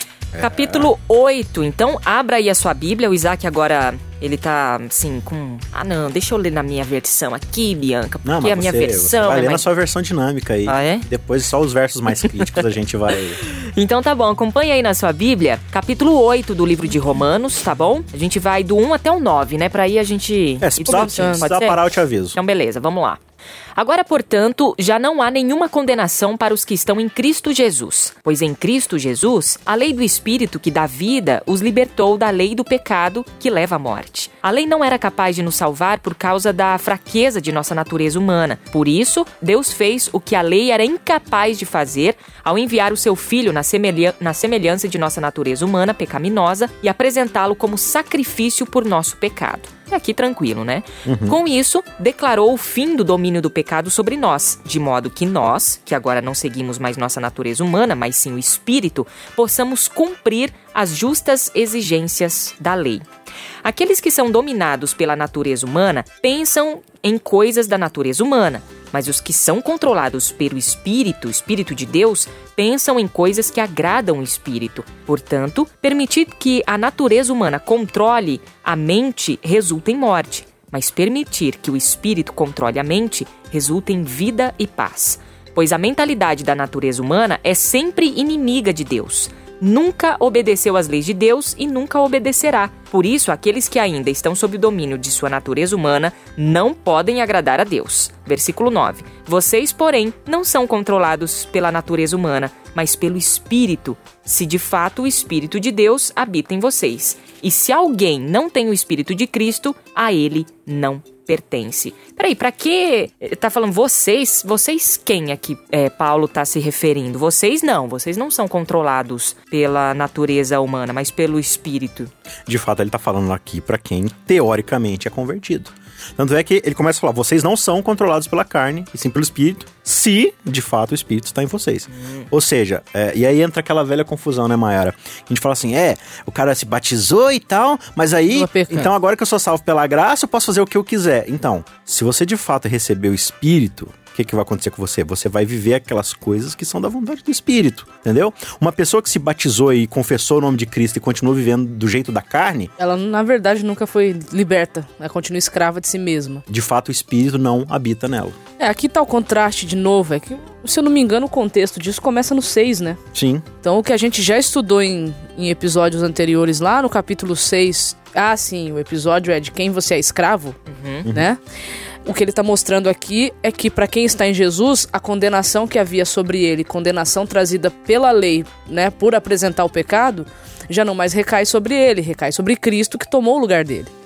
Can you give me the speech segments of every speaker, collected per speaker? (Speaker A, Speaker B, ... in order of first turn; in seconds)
Speaker A: 0.3-0.9, 8.2-13.4, 20.6-22.4, 51.0-51.4, 122.5-152.7, 156.5-158.4, 163.1-163.5
Speaker B: 0.4-9.7, 10.7-11.1, 13.4-21.8, 22.3-23.2, 23.8-63.0, 63.6-122.1, 132.0-132.3, 170.7-171.1
Speaker C: 20.9-21.5, 138.3-138.9, 152.8-156.4, 158.6-163.0, 163.6-170.6, 171.1-171.4, 172.1-183.9